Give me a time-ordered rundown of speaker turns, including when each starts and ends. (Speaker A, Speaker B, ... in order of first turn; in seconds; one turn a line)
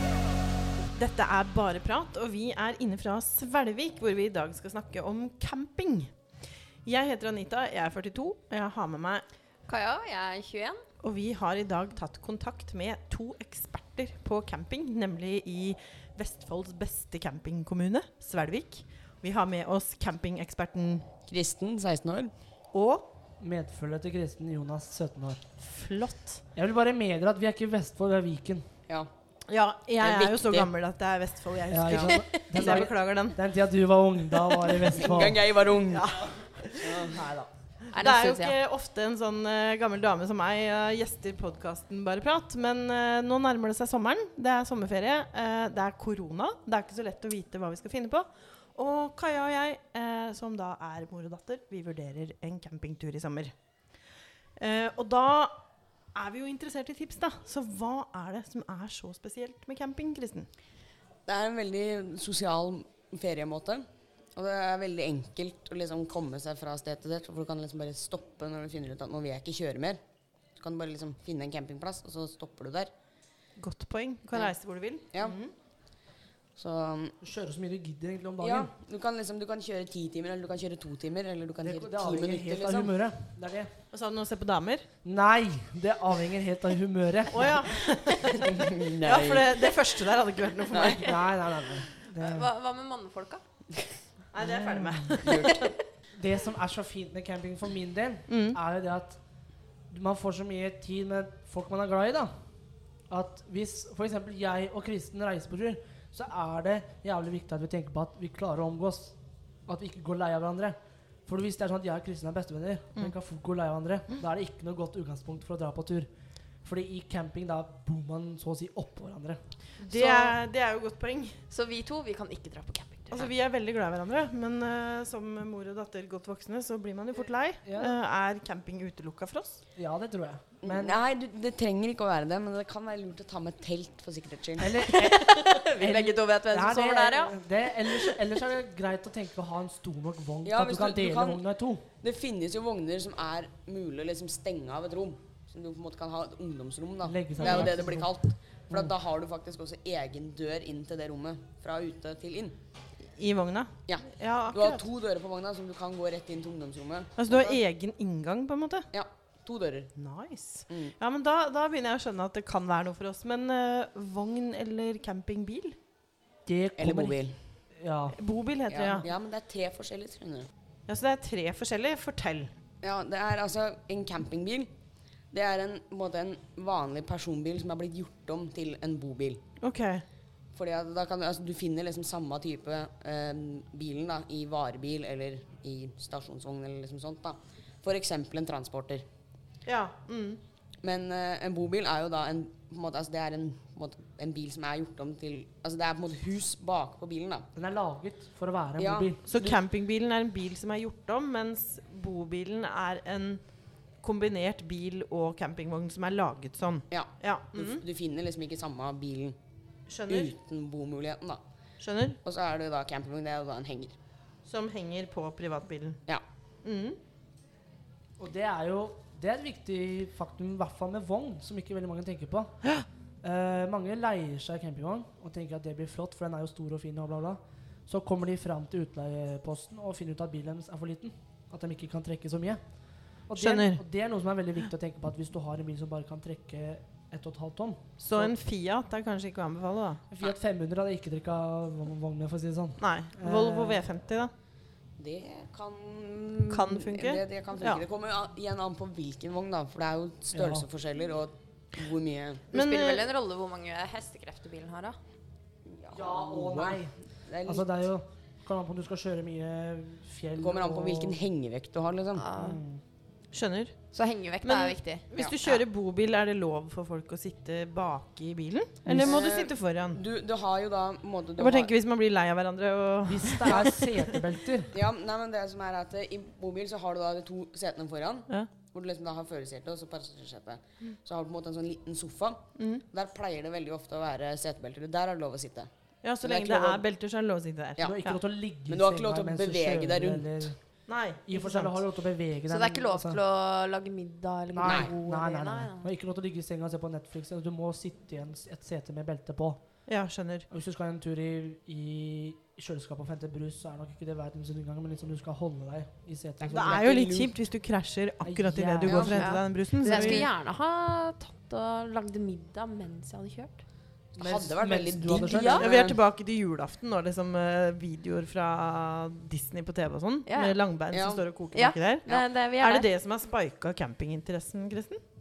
Speaker A: 0.9-6.1
Speaker A: 6.8-9.2
Speaker B: 9.7-10.8
Speaker A: 11.0-21.1
Speaker C: 21.3-22.3
Speaker A: 22.7-23.0
Speaker D: 23.4-25.4
Speaker A: 25.6-26.4
Speaker D: 26.6-28.7
Speaker A: 29.5-33.4
Speaker C: 30.0-30.7
Speaker D: 31.7-35.4
Speaker C: 31.9-32.2
Speaker C: 34.9-36.1
Speaker A: 35.9-37.3
Speaker C: 36.8-37.3
Speaker B: 37.9-38.6
Speaker A: 37.9-53.5
Speaker A: 54.6-55.6
Speaker A: 56.1-60.5
Speaker C: 61.3-70.0
Speaker C: 70.6-72.9
Speaker A: 73.6-75.5
Speaker C: 76.6-77.2
Speaker D: 77.2-78.7
Speaker C: 78.4-82.9
Speaker D: 81.6-83.7
Speaker A: 83.9-84.9
Speaker D: 85.0-87.7
Speaker A: 87.3-91.2
Speaker C: 88.4-89.7
Speaker B: 90.8-93.4
Speaker D: 90.9-92.5
Speaker A: 94.3-95.7
Speaker C: 95.2-95.6
Speaker D: 96.2-99.2
Speaker A: 98.3-98.6
Speaker D: 99.9-102.3
Speaker D: 103.1-109.2
Speaker D: 109.7-116.1
Speaker D: 116.6-119.4
Speaker A: 119.8-121.4
Speaker B: 119.8-120.4
Speaker B: 121.5-123.3
Speaker A: 123.1-129.6
Speaker D: 127.7-128.0
Speaker D: 129.8-131.0
Speaker C: 130.6-134.9
Speaker D: 134.6-141.9
Speaker B: 134.8-138.2
Speaker C: 140.4-141.4
Speaker C: 142.0-152.6
Speaker D: 147.1-148.1
Speaker A: 147.4-147.7
Speaker A: 153.2-154.9
Speaker C: 153.9-157.6
Speaker A: 157.2-158.9
Speaker C: 158.9-159.9
Speaker A: 159.9-165.8
Speaker C: 160.7-160.9
Speaker D: 166.5-167.2
Speaker C: 166.8-167.4
Speaker D: 167.8-168.2
Speaker A: 168.2-169.1
Speaker C: 168.7-170.5
Speaker A: 170.9-172.5
Speaker C: 172.8-174.7
Speaker C: 175.3-179.4
Speaker A: 179.6-180.0
Speaker C: 180.5-189.1
Speaker A: 189.7-190.4
Speaker C: 190.8-197.5
Speaker D: 197.5-199.2
Speaker C: 198.8-199.6
Speaker A: 199.3-203.4
Speaker A: 204.0-207.8
Speaker C: 206.9-209.4
Speaker A: 209.9-210.3
Speaker C: 210.1-211.4
Speaker A: 211.8-212.2
Speaker C: 212.2-214.0
Speaker A: 214.5-216.0
Speaker A: 216.6-217.0
Speaker D: 218.2-222.5
Speaker D: 223.2-232.6
Speaker D: 233.3-238.3
Speaker A: 233.4-233.8
Speaker A: 238.0-240.0
Speaker D: 240.1-243.8
Speaker A: 242.8-244.3
Speaker C: 245.0-252.5
Speaker A: 246.5-247.9
Speaker D: 250.3-250.7
Speaker A: 252.5-253.1
Speaker B: 252.5-255.0
Speaker C: 255.7-257.7
Speaker D: 255.9-261.2
Speaker C: 260.4-262.2
Speaker B: 262.1-262.6
Speaker D: 262.4-262.8
Speaker A: 263.3-263.8
Speaker B: 263.9-265.6
Speaker A: 264.4-270.0
Speaker D: 268.9-269.2
Speaker C: 269.0-271.7
Speaker A: 271.4-274.0
Speaker D: 273.1-274.8
Speaker C: 274.7-282.4
Speaker A: 282.6-282.8
Speaker C: 282.9-285.7
Speaker A: 286.0-288.2
Speaker C: 286.2-286.8
Speaker D: 287.8-290.6
Speaker C: 288.7-290.5
Speaker A: 290.9-291.8
Speaker D: 291.3-293.2
Speaker B: 292.5-295.9
Speaker D: 294.5-299.6
Speaker C: 294.6-295.0
Speaker A: 299.9-300.5
Speaker D: 300.5-306.8
Speaker C: 306.4-307.4
Speaker A: 306.5-310.3
Speaker D: 308.2-310.2
Speaker B: 308.8-313.6
Speaker C: 314.1-316.0
Speaker D: 314.2-315.6
Speaker B: 315.1-315.7
Speaker A: 315.6-325.0
Speaker B: 320.3-320.6
Speaker C: 320.9-321.3
Speaker B: 321.5-322.9